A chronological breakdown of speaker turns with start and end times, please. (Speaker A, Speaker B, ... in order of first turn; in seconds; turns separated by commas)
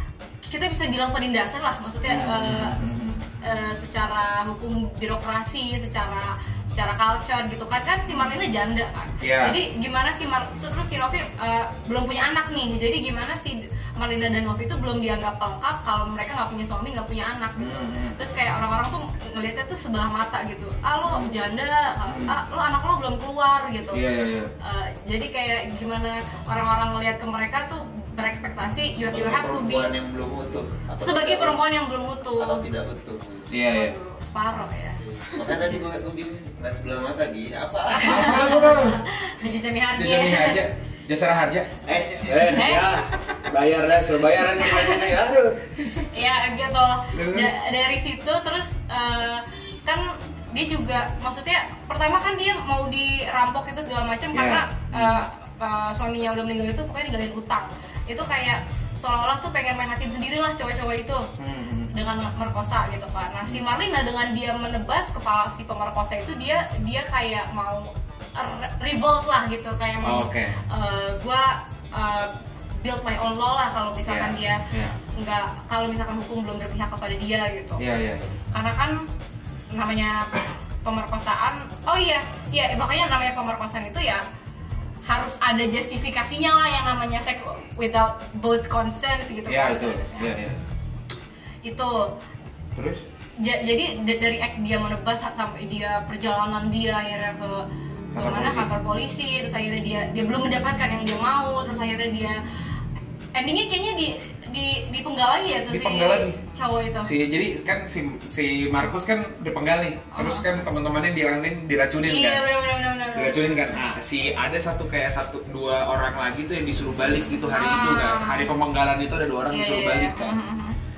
Speaker A: 0.5-2.8, Speaker B: 2.0-3.2, Speaker A: 3.4-24.1, Speaker B: 9.2-9.6, Speaker B: 17.6-18.2, Speaker B: 22.1-22.4, Speaker B: 23.9-24.5, Speaker A: 24.6-29.9, Speaker C: 29.1-31.6, Speaker A: 31.0-32.7, Speaker C: 32.4-33.5, Speaker B: 33.5-34.0, Speaker A: 33.6-35.6, Speaker C: 35.0-38.5, Speaker A: 37.9-40.6, Speaker B: 38.0-39.0, Speaker B: 40.0-41.8, Speaker C: 41.9-42.8, Speaker A: 41.9-43.0, Speaker D: 42.2-45.6, Speaker A: 45.9-61.3, Speaker B: 47.1-47.5, Speaker B: 54.3-55.2, Speaker B: 61.4-61.9, Speaker A: 61.9-77.8, Speaker B: 70.0-70.6, Speaker B: 74.1-75.0, Speaker B: 77.8-78.4, Speaker A: 78.5-79.0, Speaker A: 79.7-84.2, Speaker A: 85.1-90.3, Speaker B: 89.5-90.6, Speaker A: 91.6-92.2, Speaker B: 92.8-93.0, Speaker A: 93.4-102.4, Speaker B: 98.1-98.7, Speaker A: 103.3-107.1, Speaker B: 105.7-106.4, Speaker B: 107.0-112.5, Speaker A: 110.1-110.5, Speaker A: 112.0-113.9, Speaker B: 113.1-120.4, Speaker A: 117.5-118.5, Speaker A: 119.5-120.8